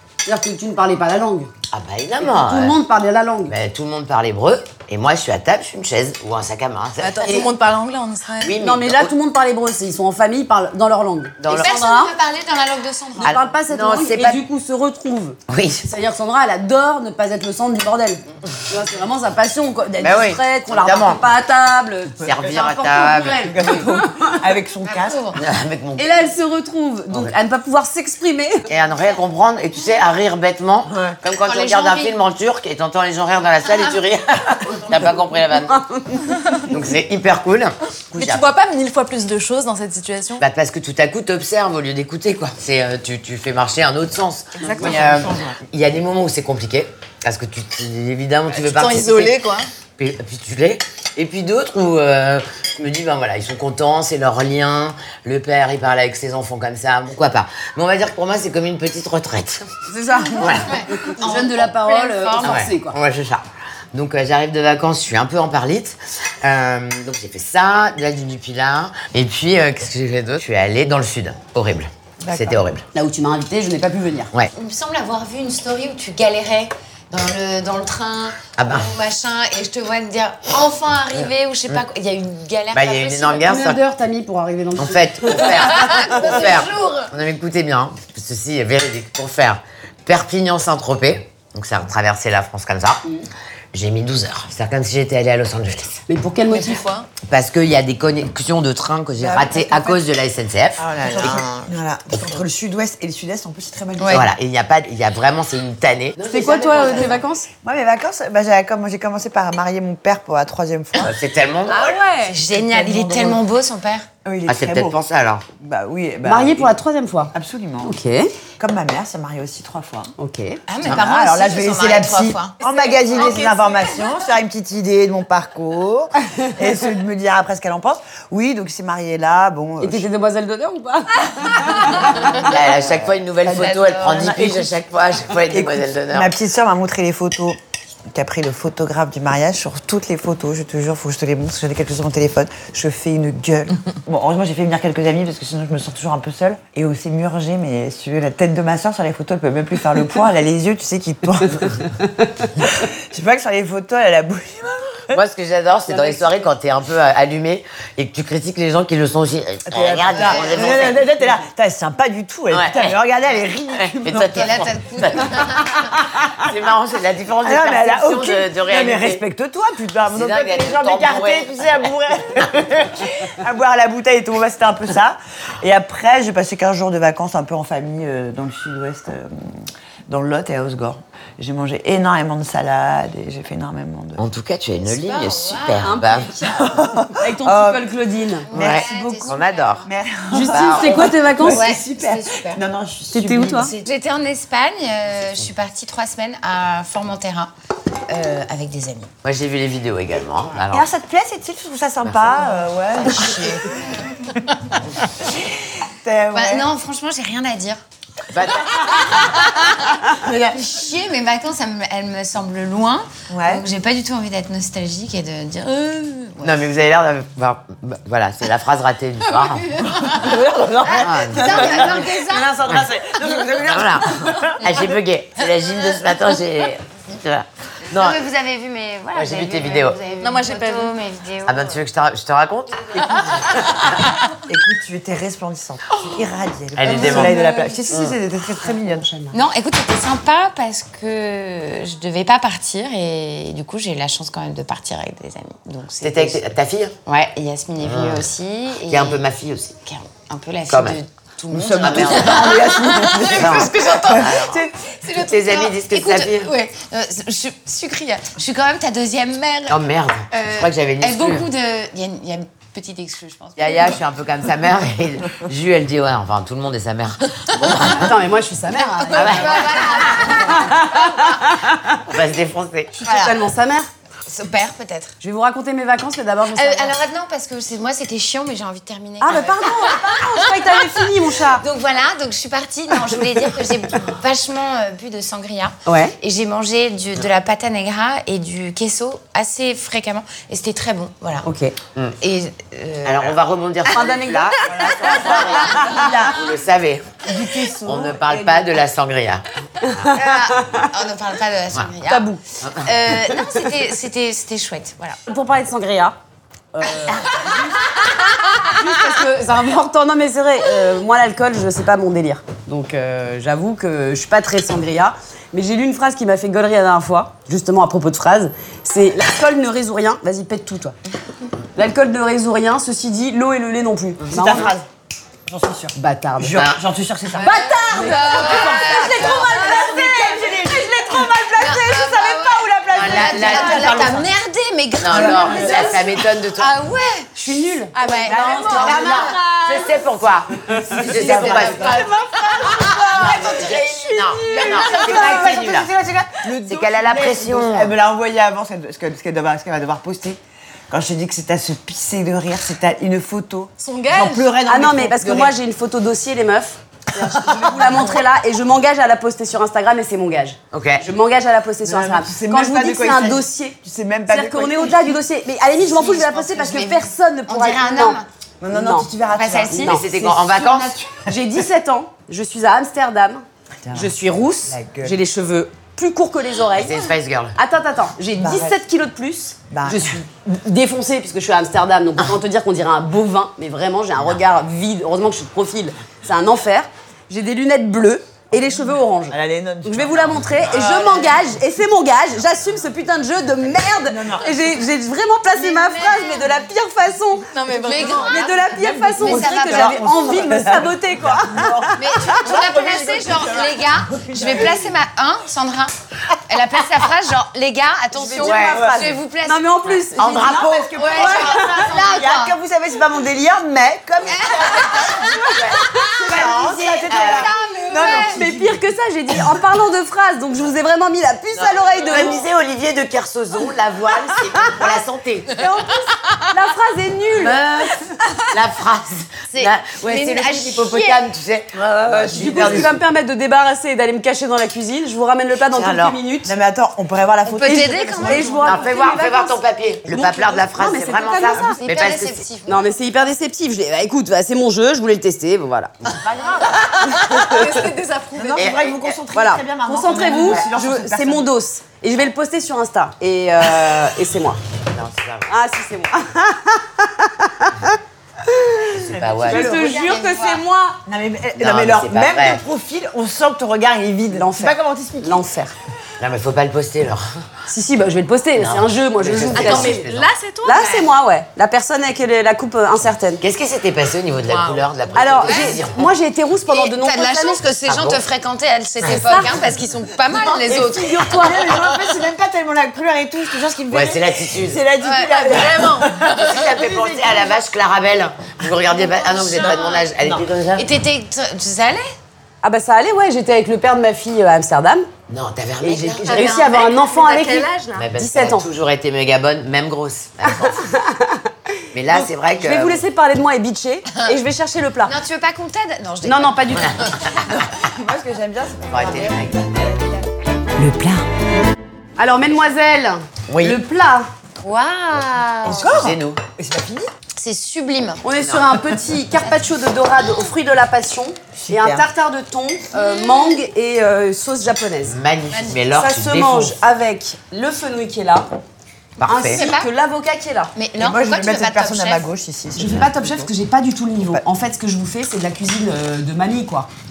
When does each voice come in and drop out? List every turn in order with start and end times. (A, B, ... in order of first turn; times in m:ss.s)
0:00.2-0:01.5 A
0:01.7-0:02.8 B
0:02.2-0:03.5 A
0:03.5-0:07.5 B
0:07.0-0:08.6 C
0:08.4-0:09.1 B
0:08.6-0:12.1 A
0:11.4-0:11.8 B
0:11.5-0:13.4 D
0:13.2-0:24.4 A
0:13.2-0:14.4 B
0:15.5-0:15.8 B
0:20.0-0:21.2 B
0:22.2-0:23.5 B
0:22.3-0:22.7 E
0:23.4-0:25.2 E
0:24.8-0:25.4 D
0:25.3-0:26.3 B
0:26.0-0:28.7 A
0:28.7-0:35.8 B
0:30.9-0:31.2 E
0:31.4-0:32.2 D
0:35.6-0:36.4 A
0:36.7-0:38.5 B
0:38.1-0:40.4 C
0:40.4-0:49.4 B
0:44.6-0:45.6 E
0:48.5-0:49.7 C
0:50.0-0:59.7 B
0:59.9-1:03.0 A
1:00.3-1:00.8 B
1:00.4-1:02.7 D
1:02.4-1:12.8 B
1:12.2-1:12.6 E
1:12.9-1:14.3 A
1:14.5-1:23.6 D
1:18.6-1:18.9 B
1:22.7-1:23.8 B
1:23.4-1:25.7 A
1:24.7-1:33.0 B
1:25.4-1:27.1 D
1:33.7-1:36.0 B
1:36.1-1:36.8 A
1:36.5-1:37.1 C
1:37.2-1:41.5 B
1:39.2-1:39.9 E
1:40.8-1:44.3 E
1:44.0-1:44.3 D
1:44.1-1:47.2 B
1:46.3-1:47.5 A
1:47.6-1:51.1 E
1:51.0-1:52.0 B
1:51.7-1:52.4 C
1:52.2-1:54.1 D
1:52.5-1:53.4 E
1:54.2-1:55.0 E
1:54.5-1:55.4 B
1:55.6-1:56.7 E
1:56.2-1:58.3 A
1:57.3-1:58.0 E
1:58.6-2:00.1 E
2:00.2-2:00.6 A
2:00.7-2:03.9 D
2:00.8-2:10.1 E
2:09.8-2:12.3 A
2:12.2-2:16.3 B
2:12.3-2:12.7 D
2:13.4-2:14.4 D
2:13.6-2:14.7 E
2:15.5-2:17.6 E
2:18.1-2:31.9 E
2:32.6-2:35.2 E
2:35.1-2:41.0 B
2:35.9-2:36.4 A
2:39.7-2:44.6 E
2:40.2-2:40.8 D
2:42.5-2:43.0 B
2:43.8-2:45.6 B
2:44.1-2:46.1 D
2:46.4-2:49.2 B
2:47.4-3:04.2 E
2:50.1-2:51.7 B
3:04.2-3:06.3 B
3:04.8-3:06.0 D
3:05.8-3:08.5 A
3:06.5-3:07.9 E
3:08.5-3:09.9 D
3:08.5-3:13.8 E
3:08.5-3:09.8 B
3:10.3-3:11.6 A
3:10.5-3:11.1 B
3:10.9-3:12.6 D
3:13.1-3:13.7 A
3:13.5-3:17.5 D
3:18.0-3:19.1 D
3:19.2-3:20.9 B
3:20.7-3:24.0 E
3:23.0-3:24.7 D
3:25.2-3:26.7 E
3:26.3-3:27.8 D
3:28.3-3:29.3 B
3:28.7-3:36.5 D
3:33.3-3:33.6 E
3:36.4-3:39.8 B
3:39.3-3:42.6 D
3:39.8-3:44.7 E
3:40.9-3:42.1 B
3:43.4-3:48.2 B
3:47.9-3:51.8 D
3:49.1-3:50.0 B
3:50.2-3:50.9 C
3:51.4-3:53.3 B
3:53.0-3:53.7 D
3:54.4-3:59.1 E
3:56.8-3:57.4 B
3:56.9-3:57.7 D
3:58.8-3:59.3 A
3:59.3-4:06.4 D
4:06.0-4:06.9 B
4:07.0-4:09.2 D
4:07.8-4:08.3 B
4:08.9-4:09.8 B
4:09.8-4:23.9 D
4:10.7-4:11.0 B
4:11.5-4:12.6 B
4:11.5-4:14.3 E
4:13.3-4:16.5 B
4:19.7-4:21.5 B
4:23.6-4:28.1 B
4:27.6-4:32.0 A
4:28.8-4:31.3 D
4:29.1-4:30.5 B
4:31.9-4:33.0 B
4:33.0-4:33.9 A
4:33.0-4:33.3 D
4:34.2-4:35.1 D
4:35.2-4:37.0 A
4:36.5-4:51.5 D
4:39.2-4:41.6 A
4:45.8-4:46.1 A
4:51.4-4:51.7 A
4:52.2-4:53.3 D
4:53.0-4:57.3 B
4:53.8-4:56.0 A
4:54.6-4:56.4 E
4:57.2-4:58.7 E
4:57.8-4:59.4 B
4:59.8-5:00.9 A
5:00.1-5:02.3 D
5:02.1-5:02.4 A
5:02.6-5:02.9 B
5:02.8-5:05.2 D
5:05.3-5:06.2 A
5:06.7-5:07.7 A
5:07.0-5:07.5 D
5:08.6-5:20.9 A
5:21.8-5:24.7 A
5:24.3-5:24.9 E
5:25.4-5:34.2 E
5:25.9-5:26.7 A
5:27.3-5:31.7 A
5:27.4-5:29.8 D
5:31.5-5:37.3 D
5:32.9-5:34.3 B
5:35.0-5:36.7 B
5:35.1-5:36.1 E
5:37.3-5:39.3 A
5:38.0-5:39.4 D
5:38.0-5:39.6 C
5:38.1-5:39.4 E
5:39.5-5:42.0 B
5:40.6-5:42.1 E
5:41.1-5:45.6 D
5:42.8-5:43.8 E
5:43.1-5:45.9 B
5:44.5-5:55.5 E
5:46.6-5:47.9 B
5:53.8-5:54.5 C
5:54.6-6:09.1 A
5:57.1-5:58.2 E
6:00.7-6:01.0 B
6:01.8-6:05.2 E
6:05.8-6:08.2 D
6:08.6-6:11.3 E
6:09.3-6:10.0 D
6:09.7-6:10.0 A
6:09.8-6:11.0 B
6:11.2-6:17.0 A
6:13.8-6:14.1 E
6:14.6-6:15.2 E
6:16.8-6:17.6 B
6:17.5-6:37.5 A
6:18.4-6:18.8 E
6:19.7-6:20.1 E
6:29.3-6:30.8 E
6:30.8-6:31.3 D
6:34.0-6:34.6 E
6:35.6-6:36.5 D
6:37.5-6:38.4 C
6:37.7-6:40.4 D
6:38.1-6:42.3 A
6:39.2-6:44.9 E
6:42.0-6:45.9 D
6:46.5-6:52.6 D
6:48.2-6:51.7 A
6:48.2-6:49.2 E
6:48.4-6:48.9 B
6:50.2-6:51.1 B
6:50.2-6:58.8 E
6:54.3-6:58.4 D
6:56.3-6:57.5 B
6:58.0-7:02.4 A
7:01.6-7:05.6 B
7:05.6-7:07.6 A
7:07.3-7:13.0 B
7:09.5-7:11.2 D
7:11.9-7:12.9 E
7:12.3-7:16.5 A
7:15.7-7:16.2 B
7:16.4-7:18.8 E
7:17.4-7:18.8 D
7:17.6-7:21.8 A
7:18.6-7:22.4 B
7:21.8-7:23.0 D
7:22.6-7:27.8 A
7:27.3-7:28.7 C
7:28.3-7:31.5 E
7:28.6-7:29.1 B
7:29.3-7:34.6 A
7:34.9-7:35.5 B
7:35.5-7:38.0 A
7:38.5-7:38.9 A
7:38.9-7:39.7 B
7:38.9-7:40.2 E
7:39.4-7:41.0 A
7:39.6-7:40.6 D
7:41.0-7:45.4 E
7:41.6-7:42.6 B
7:44.3-7:45.7 A
7:46.2-7:47.4 B
7:47.7-7:50.1 A
7:48.6-7:50.3 B
7:49.5-7:51.0 C
7:50.6-7:53.4 A
7:53.4-7:56.0 B
7:54.4-7:54.8 D
7:55.1-7:57.6 A
7:55.4-7:55.8 D
7:56.7-8:01.8 D
7:57.8-7:58.2 B
7:59.1-7:59.6 A
8:00.7-8:01.7 A
8:00.7-8:07.6 E
8:03.9-8:04.8 B
8:05.0-8:06.1 D
8:05.5-8:06.1 C
8:05.5-8:10.9 B
8:08.9-8:10.0 D
8:10.2-8:10.4 E
8:10.8-8:12.1 D
8:12.6-8:15.1 A
8:15.3-8:16.6 B
8:15.8-8:18.7 A
8:16.2-8:17.2 D
8:16.5-8:18.0 C
8:17.9-8:20.9 B
8:20.5-8:21.5 A
8:21.9-8:23.0 B
8:22.1-8:25.2 A
8:25.0-8:27.3 D
8:26.2-8:27.0 A
8:27.7-8:30.3 E
8:28.9-8:29.7 B
8:30.8-8:31.2 A
8:32.2-8:34.3 A
8:33.5-8:33.8 B
8:34.6-8:36.0 D
8:35.6-8:37.1 E
8:35.7-8:36.4 B
8:37.4-8:38.2 D
8:38.2-8:45.2 A
8:38.4-8:38.7 B
8:41.5-8:42.1 E
8:45.0-8:46.7 B
8:45.5-8:45.8 D
8:45.9-8:48.5 A
8:49.2-8:49.6 B
8:49.2-8:50.7 A
8:49.3-8:49.9 D
8:50.8-8:52.2 D
8:51.0-8:53.3 E
8:52.7-8:56.9 A